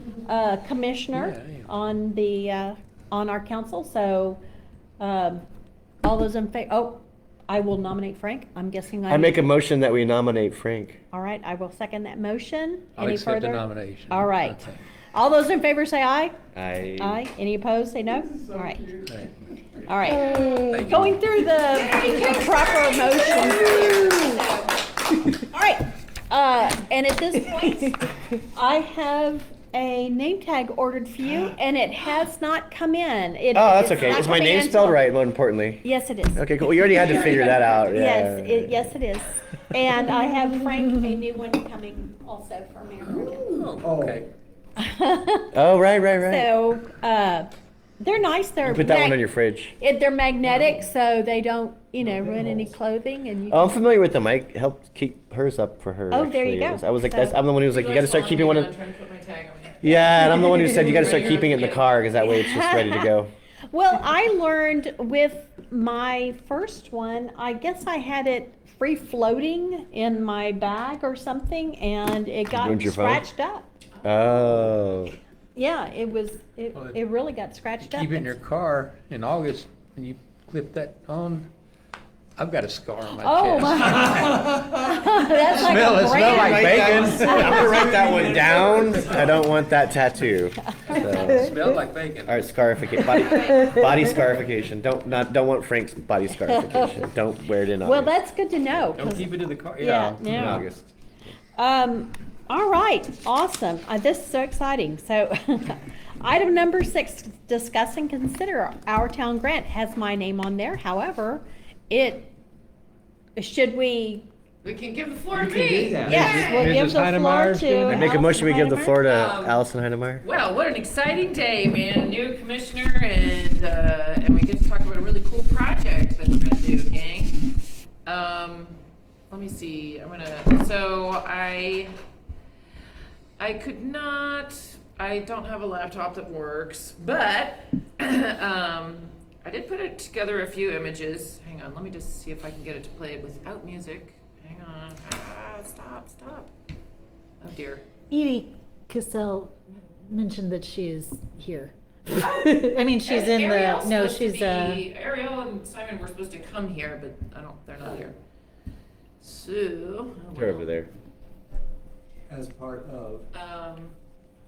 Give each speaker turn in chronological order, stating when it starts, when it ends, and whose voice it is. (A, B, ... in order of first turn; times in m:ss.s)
0:00.2-0:04.4 A
0:01.1-0:01.7 B
0:05.0-0:05.4 A
0:06.0-0:09.5 A
0:09.1-0:11.0 C
0:11.1-0:16.3 A
0:13.0-0:14.7 B
0:16.5-0:17.2 C
0:17.0-0:18.9 A
0:18.4-0:19.1 D
0:19.8-0:24.4 A
0:20.1-0:21.4 B
0:21.7-0:24.8 E
0:25.4-0:35.1 A
0:33.5-0:35.8 C
0:35.8-0:43.8 A
0:36.3-0:38.9 C
0:43.0-0:44.3 B
0:43.4-0:44.2 D
0:44.8-0:45.5 A
0:45.5-0:46.5 C
0:46.2-0:49.2 A
0:48.6-0:49.7 C
0:49.8-0:53.8 A
0:52.0-0:52.7 D
0:53.5-0:58.7 C
0:56.1-0:57.4 A
0:57.7-1:01.9 E
0:59.8-1:03.3 C
1:00.6-1:01.4 A
1:02.2-1:03.1 A
1:03.7-1:13.6 A
1:12.5-1:13.2 C
1:14.0-1:14.7 E
1:14.0-1:15.1 C
1:15.6-1:18.3 A
1:17.8-1:21.5 B
1:22.4-1:24.4 B
1:23.2-1:28.6 A
1:25.5-1:31.5 C
1:26.2-1:27.4 B
1:27.2-1:28.6 D
1:30.9-1:31.4 A
1:31.3-1:32.4 B
1:32.3-1:38.1 C
1:33.2-1:33.8 E
1:36.5-1:37.0 A
1:37.8-1:40.6 A
1:38.8-1:40.6 B
1:40.3-1:40.9 C
1:41.6-1:52.3 A
1:53.4-1:54.3 A
1:54.6-1:56.8 E
1:55.3-1:56.9 D
1:56.0-1:59.0 A
1:56.6-1:58.0 B
1:57.8-2:00.2 C
1:59.0-1:59.6 E
2:00.2-2:07.4 E
2:08.0-2:12.0 E
2:13.4-2:26.5 E
2:27.4-2:27.8 E
2:28.1-2:29.5 F
2:30.1-2:34.8 F
2:33.0-2:38.2 E
2:39.2-2:40.7 E
2:40.4-2:40.9 C
2:42.3-2:43.3 D
2:43.3-2:44.0 E